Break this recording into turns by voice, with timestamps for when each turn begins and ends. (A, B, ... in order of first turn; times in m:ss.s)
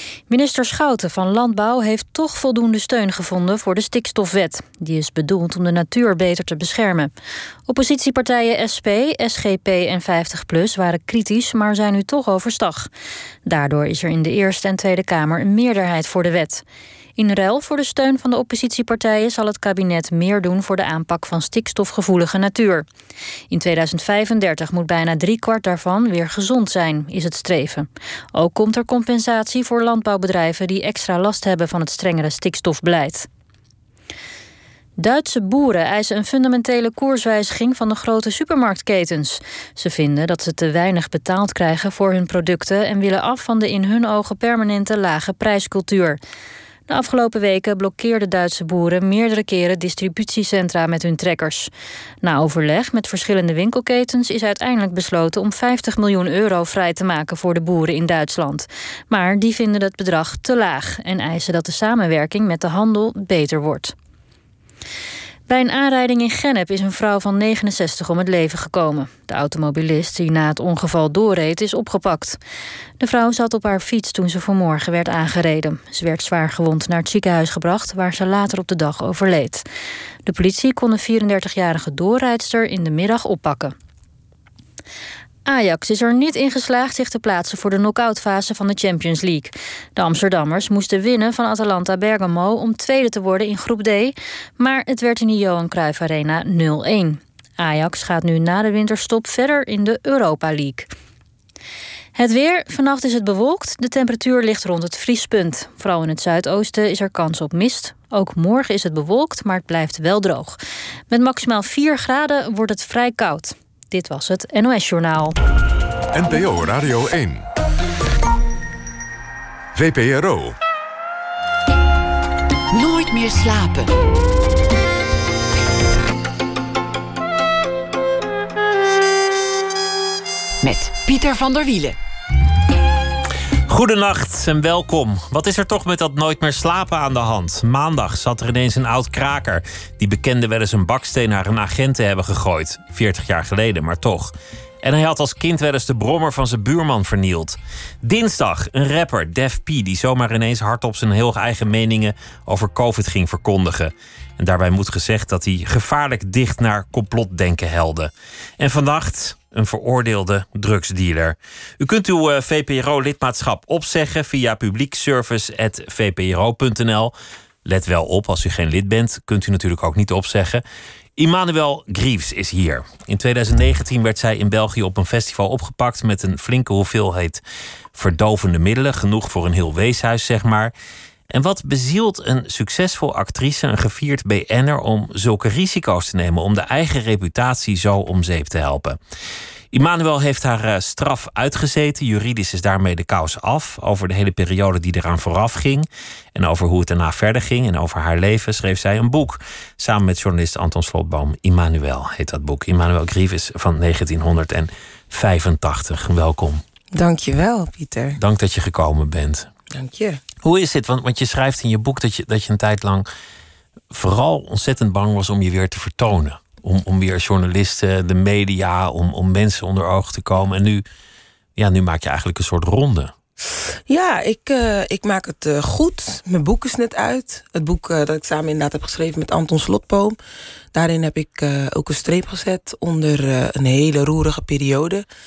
0:00.3-0:07.1 A
0:07.7-0:12.9 A
0:13.4-0:16.6 A
0:17.2-0:22.8 A
0:23.5-0:33.3 A
0:35.0-0:46.2 A
0:46.9-0:51.7 A
0:52.2-1:03.9 A
1:05.5-1:12.4 A
1:13.0-1:19.6 A
1:20.2-1:23.7 A
1:25.4-1:40.9 A
1:42.1-1:50.6 A
1:51.1-1:55.4 A
1:56.1-1:57.5 B
1:59.7-2:00.6 B
2:02.7-2:03.9 C
2:10.6-2:12.0 C
2:13.7-2:47.1 D
2:47.6-2:50.6 D
2:51.2-2:57.4 D
2:57.9-3:00.7 D
3:01.3-3:09.0 D
3:09.7-3:26.6 D
3:26.9-3:28.2 E
3:28.2-3:29.5 D
3:29.7-3:30.2 E
3:30.4-3:33.1 D
3:33.9-3:40.8 D
3:41.6-3:43.1 D
3:43.9-3:50.2 E
3:50.7-3:55.0 E